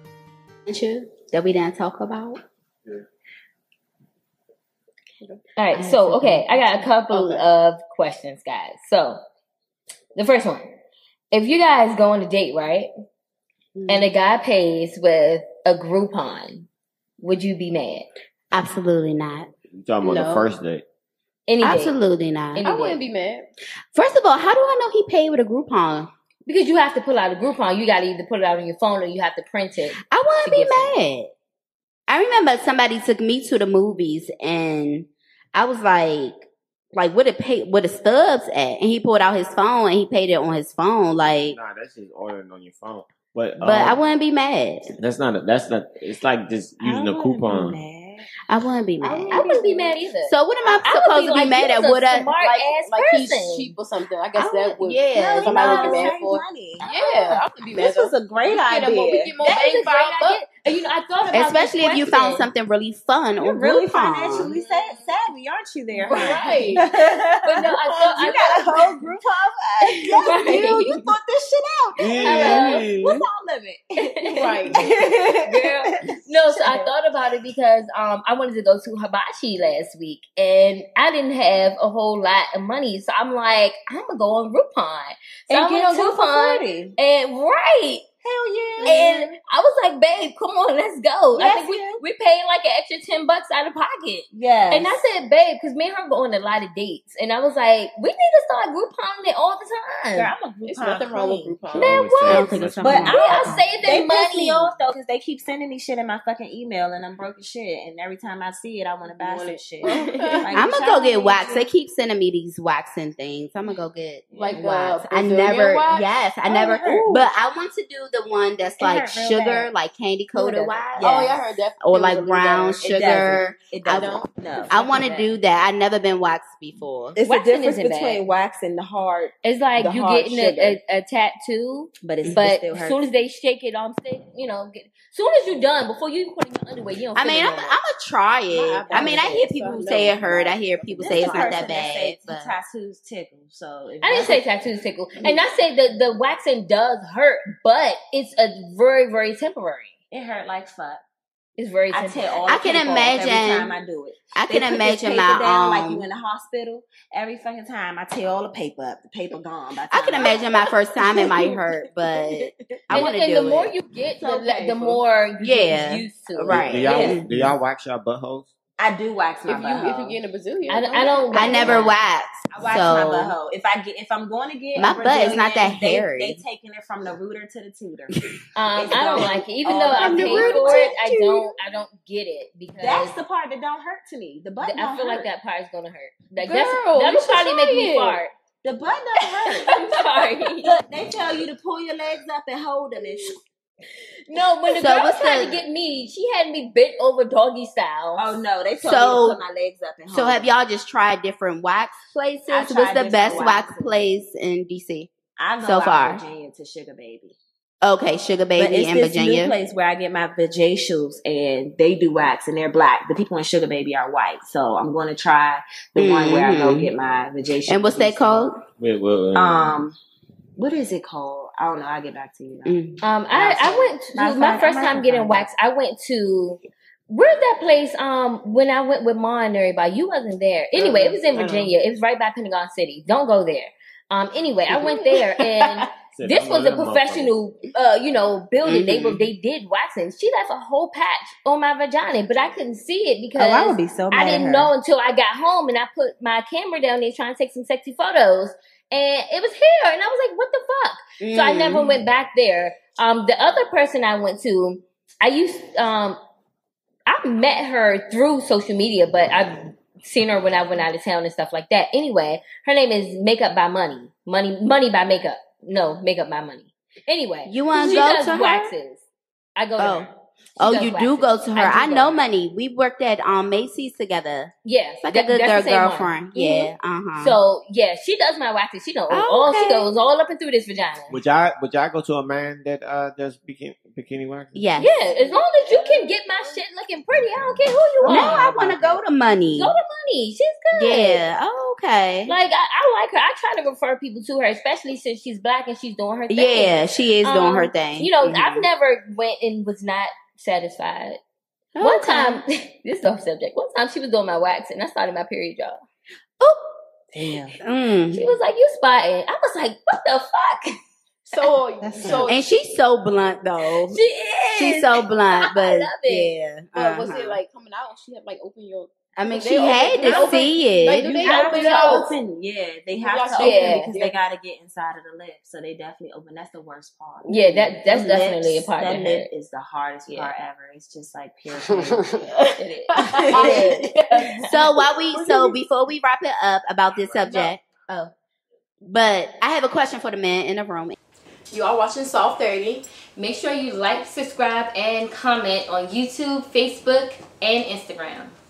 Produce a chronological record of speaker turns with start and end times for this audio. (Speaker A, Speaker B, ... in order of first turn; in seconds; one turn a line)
Speaker A: 0.7-2.4
Speaker B: 5.6-9.2
Speaker A: 5.7-6.5
Speaker C: 7.1-7.5
Speaker B: 10.2-10.7
Speaker B: 11.3-12.9
Speaker B: 13.9-16.7
Speaker B: 17.2-18.1
Speaker A: 18.5-19.5
Speaker D: 19.8-20.9
Speaker C: 20.0-20.5
Speaker B: 21.5-22.0
Speaker A: 21.6-22.7
Speaker B: 22.5-23.0
Speaker C: 22.6-23.5
Speaker A: 23.9-26.1
Speaker B: 26.5-31.0
Speaker A: 30.0-31.3
Speaker A: 32.1-41.6
Speaker D: 41.3-44.0
Speaker A: 43.6-44.9
Speaker D: 44.9-47.8
Speaker E: 46.8-48.3
Speaker A: 48.5-49.5
Speaker E: 49.0-49.9
Speaker C: 49.1-49.5
Speaker B: 49.3-53.7
Speaker A: 50.2-52.3
Speaker C: 52.4-60.4
Speaker A: 54.4-56.1
Speaker E: 55.1-59.4
Speaker B: 59.4-62.5
Speaker A: 61.3-64.5
Speaker E: 63.4-75.9
Speaker C: 64.3-65.1
Speaker C: 66.1-66.8
Speaker B: 66.1-66.8
Speaker B: 67.4-68.8
Speaker B: 70.2-71.0
Speaker A: 72.0-73.3
Speaker B: 72.2-72.9
Speaker B: 74.2-74.6
Speaker C: 74.4-75.0
Speaker B: 75.5-88.0
Speaker E: 76.5-76.9
Speaker E: 85.5-86.9
Speaker E: 88.2-89.4
Speaker B: 88.8-100.3
Speaker E: 91.3-92.0
Speaker E: 94.3-95.0
Speaker E: 100.2-101.7
Speaker C: 100.6-102.0
Speaker D: 101.7-103.5
Speaker B: 101.8-104.8
Speaker A: 102.2-103.6
Speaker E: 102.8-111.7
Speaker C: 109.1-110.5
Speaker A: 110.5-121.2
Speaker C: 114.3-117.3
Speaker E: 114.4-114.7
Speaker E: 116.6-117.1
Speaker E: 118.8-119.7
Speaker E: 120.3-121.6
Speaker C: 121.0-123.0
Speaker A: 121.8-127.2
Speaker E: 122.9-125.3
Speaker C: 123.9-124.3
Speaker E: 127.2-130.8
Speaker B: 127.2-128.2
Speaker B: 129.4-137.8
Speaker E: 132.0-133.0
Speaker A: 137.2-142.6
Speaker C: 138.5-141.7
Speaker E: 138.9-139.4
Speaker E: 141.0-144.4
Speaker B: 144.0-149.9
Speaker E: 150.1-151.0
Speaker B: 151.6-152.6
Speaker E: 151.9-160.4
Speaker A: 152.5-153.8
Speaker A: 154.3-156.1
Speaker A: 159.9-163.7
Speaker C: 161.1-161.6
Speaker B: 162.9-166.7
Speaker C: 164.2-165.0
Speaker A: 165.4-167.5
Speaker D: 166.5-168.5
Speaker E: 166.7-167.2
Speaker E: 168.8-170.2
Speaker C: 169.5-171.8
Speaker B: 170.7-172.0
Speaker A: 171.3-173.3
Speaker E: 172.5-178.2
Speaker A: 174.8-176.4
Speaker B: 178.6-183.2
Speaker E: 178.8-180.9
Speaker A: 179.9-181.5
Speaker E: 182.8-185.3
Speaker B: 184.7-188.3
Speaker C: 186.4-188.2
Speaker E: 188.6-193.4
Speaker B: 189.6-190.8
Speaker B: 194.3-198.3
Speaker A: 194.7-195.6
Speaker E: 198.2-200.5
Speaker A: 198.8-199.4
Speaker A: 200.1-205.1
Speaker E: 202.5-204.1
Speaker E: 205.4-207.4
Speaker A: 205.6-206.2
Speaker A: 207.8-209.6
Speaker E: 208.6-218.5
Speaker A: 216.0-216.9
Speaker A: 217.7-218.6
Speaker D: 218.8-219.7
Speaker E: 219.3-220.0
Speaker E: 220.6-222.8
Speaker A: 222.7-223.0
Speaker B: 223.0-256.2
Speaker E: 223.3-225.5
Speaker C: 230.8-231.7
Speaker D: 236.2-237.3
Speaker A: 238.6-239.3
Speaker E: 243.3-244.7
Speaker A: 251.2-252.0
Speaker B: 257.1-272.2
Speaker A: 267.5-268.7
Speaker A: 269.8-270.1
Speaker A: 270.6-274.5
Speaker B: 274.6-281.2
Speaker A: 275.0-277.4
Speaker A: 279.1-279.9
Speaker D: 281.1-284.7
Speaker A: 284.5-284.9
Speaker B: 284.8-288.8
Speaker C: 284.9-286.6
Speaker C: 288.0-288.6
Speaker A: 288.1-289.8
Speaker B: 289.6-291.2
Speaker A: 290.7-292.4
Speaker B: 292.3-301.2
Speaker A: 296.3-298.7
Speaker A: 301.8-302.4
Speaker B: 301.8-305.8
Speaker E: 307.1-307.6
Speaker A: 307.6-308.3
Speaker B: 308.1-310.7
Speaker C: 311.3-312.4
Speaker E: 311.8-312.3
Speaker A: 312.1-314.0
Speaker B: 313.9-316.3
Speaker A: 314.5-317.4
Speaker C: 316.8-322.1
Speaker A: 319.2-321.2
Speaker B: 320.0-320.3
Speaker E: 321.2-332.1
Speaker B: 321.2-322.1
Speaker C: 323.0-324.2
Speaker B: 323.4-323.9
Speaker C: 327.2-327.7
Speaker B: 327.3-329.3
Speaker B: 330.1-330.3
Speaker C: 331.5-334.0
Speaker B: 332.6-334.5
Speaker E: 333.0-333.8
Speaker A: 334.3-337.6
Speaker C: 335.1-335.5
Speaker B: 337.2-338.1
Speaker A: 338.8-341.0
Speaker C: 341.5-342.8
Speaker B: 343.2-348.3